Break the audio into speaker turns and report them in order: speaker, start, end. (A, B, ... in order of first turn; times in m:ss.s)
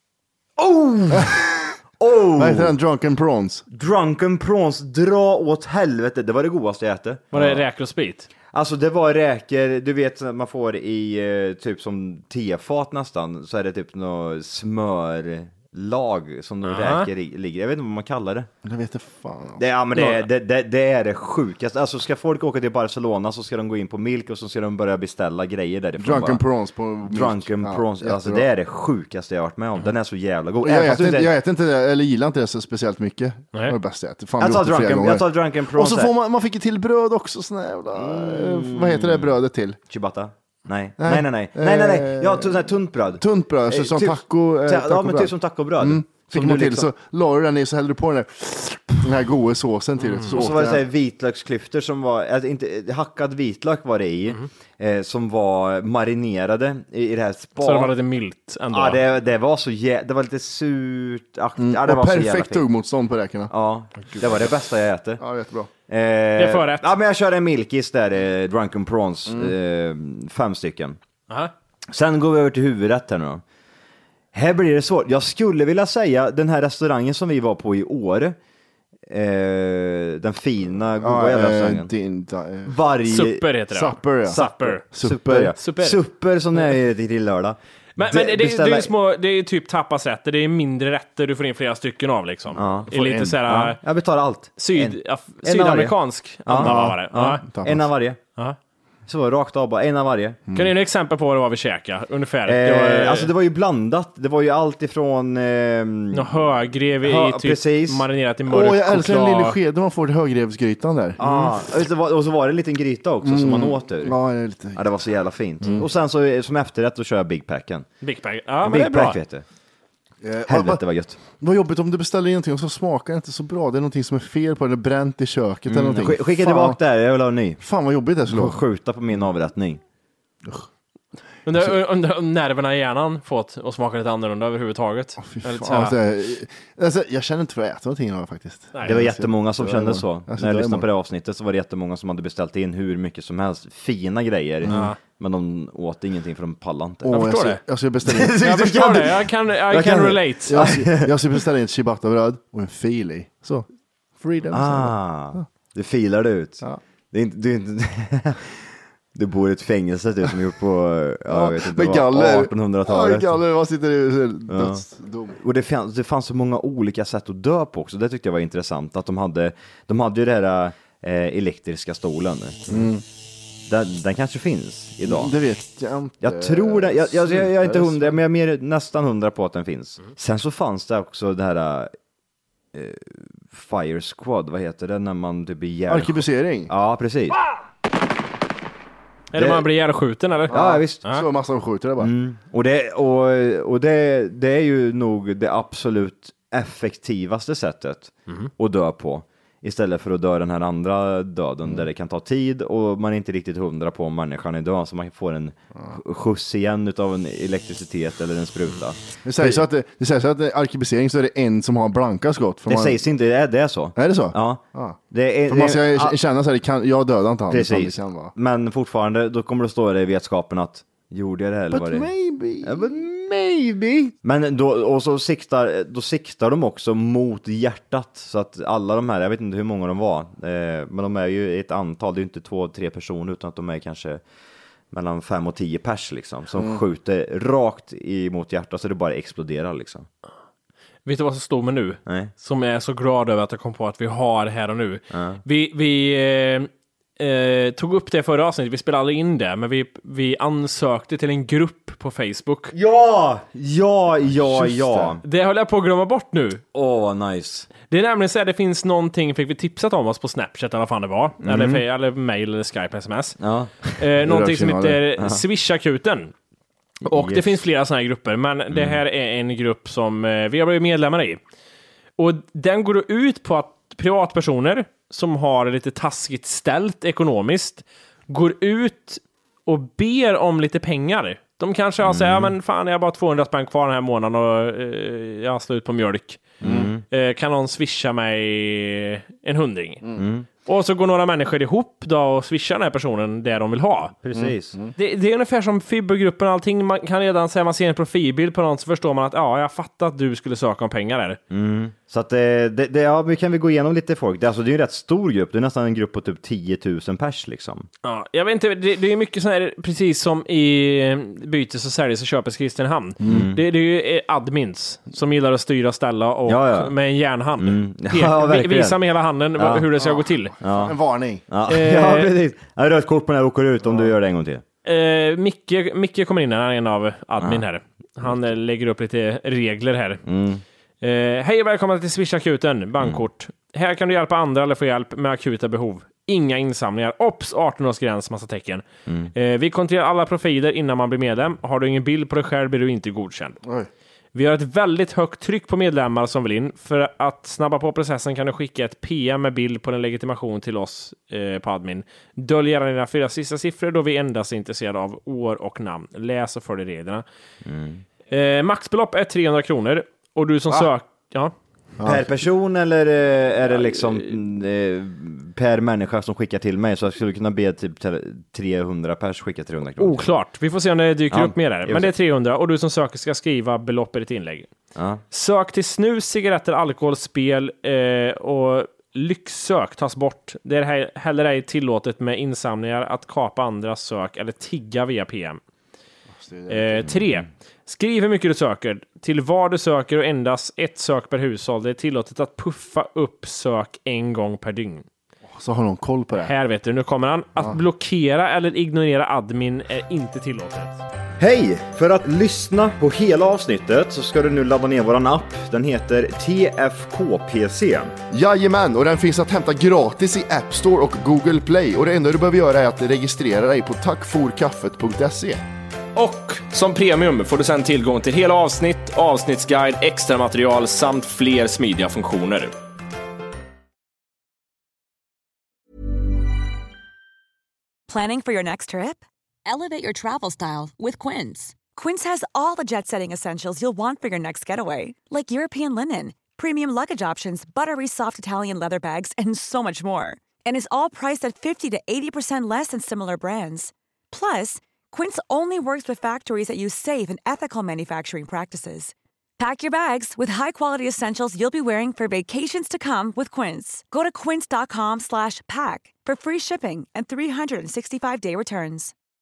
0:00.6-0:02.7 A
0:01.1-0:01.4 B
0:02.4-0:03.6 B
0:03.7-0:07.6 A
0:07.3-0:08.3 C
0:08.5-0:18.5 A
0:16.6-0:17.1 C
0:18.6-0:19.6 B
0:19.6-0:26.4 A
0:19.9-0:20.2 C
0:26.0-0:28.5 B
0:27.0-0:31.3 A
0:30.6-0:39.8 B
0:34.4-0:36.1 A
0:37.9-0:39.3 A
0:39.9-0:46.9 A
0:41.0-0:42.6 B
0:43.2-0:50.8 B
0:50.0-0:50.3 C
0:50.3-0:57.9 A
0:57.6-0:59.0 C
0:58.7-1:02.6 A
1:01.6-1:03.5 B
1:03.5-1:05.2 A
1:05.2-1:05.7 B
1:05.9-1:11.0 A
1:06.4-1:06.9 C
1:09.3-1:09.5 B
1:11.9-1:13.4 A
1:14.3-1:18.4 A
1:19.1-1:21.9 A
1:21.0-1:22.7 B
1:22.6-1:23.4 A
1:23.1-1:24.8 C
1:23.7-1:25.6 B
1:24.3-1:28.9 A
1:25.6-1:26.0 C
1:28.0-1:33.8 C
1:32.5-1:38.2 A
1:34.6-1:37.4 C
1:36.6-1:37.8 B
1:39.1-1:40.4 A
1:40.5-1:40.7 B
1:40.5-1:43.3 C
1:42.4-1:46.4 A
1:46.1-1:49.6 C
1:47.0-1:48.0 A
1:48.5-1:51.3 B
1:51.2-1:54.2 A
1:53.2-1:54.8 B
1:54.7-1:57.9 A
1:58.0-1:59.2 C
1:58.6-1:59.4 A
2:00.2-2:00.8 B
2:00.5-2:01.2 A
2:01.4-2:06.8 B
2:05.7-2:07.6 A
2:07.6-2:08.6 B
2:08.3-2:09.8 A
2:11.4-2:16.0 C
2:15.2-2:20.9 B
2:18.8-2:27.2 A
2:24.6-2:24.9 B
2:24.6-2:25.0 C
2:27.0-2:28.4 B
2:27.1-2:27.6 C
2:28.0-2:31.4 A
2:28.4-2:30.6 C
2:30.5-2:33.6 B
2:34.2-2:35.4 B
2:34.5-2:38.6 A
2:39.1-2:43.4 A
2:41.3-2:45.4 B
2:44.5-2:44.8 A
2:45.4-2:52.9 A
2:52.7-2:53.0 B
2:53.7-2:55.3 A
2:55.0-2:58.2 B
2:56.2-3:01.9 A
3:02.7-3:07.4 A
3:05.9-3:06.7 B
3:09.3-3:11.2 C
3:10.5-3:12.1 B
3:10.5-3:11.0 A
3:12.0-3:29.6 A
3:29.2-3:33.0 B
3:32.7-3:36.2 A
3:34.0-3:35.0 B
3:35.5-3:38.3 B
3:37.5-3:42.1 A
3:41.7-3:43.0 B
3:42.6-3:54.2 A
3:54.9-4:00.1 A
3:56.5-3:56.8 B
4:01.0-4:12.7 C
4:02.0-4:02.3 A
4:05.1-4:05.4 A
4:12.7-4:15.2 A
4:14.5-4:15.2 B
4:15.2-4:16.6 C
4:16.7-4:17.7 A
4:17.8-4:23.4 C
4:21.5-4:21.8 A
4:23.4-4:24.0 A
4:24.0-4:26.3 C
4:24.2-4:25.0 B
4:27.0-4:31.4 C
4:27.0-4:27.5 A
4:28.7-4:29.0 A
4:32.2-4:46.5 C
4:42.0-4:42.5 A
4:46.6-4:47.0 A
4:46.6-4:46.9 B
4:47.1-4:50.0 C
4:50.2-4:50.4 A
4:50.6-4:54.1 C
4:54.2-4:54.8 A
4:54.3-4:54.9 B
4:55.0-5:01.4 C
5:01.5-5:07.9 A
5:08.0-5:20.5 C
5:13.2-5:13.5 B
5:13.2-5:13.6 A
5:16.5-5:16.9 A
5:17.6-5:19.0 A
5:19.6-5:19.9 A
5:20.0-5:21.4 B
5:20.6-5:21.0 A
5:21.5-5:24.6 A
5:21.7-5:22.3 C
5:23.8-5:24.1 B
5:24.8-5:30.2 C
5:30.2-5:30.6 A
5:31.0-5:38.8 C
5:39.1-5:39.3 A
5:39.3-5:43.6 C
5:44.3-5:57.2 C
5:57.6-5:58.0 A
5:58.3-6:01.5 C
6:02.0-6:02.4 B
6:02.0-6:10.3 A
6:03.7-6:04.3 C
6:10.0-6:14.7 C
6:11.3-6:12.1 A
6:14.9-6:15.2 A
6:15.3-6:25.6 C
6:26.3-6:27.1 B
6:26.7-6:35.0 C
6:35.5-6:36.5 B
6:36.4-6:41.0 C
6:41.4-6:48.1 A
6:48.3-6:55.6 B
6:56.2-6:56.8 C
6:56.2-7:02.7 D
6:59.0-6:59.9 C
7:00.5-7:01.0 C
7:08.1-7:39.1 E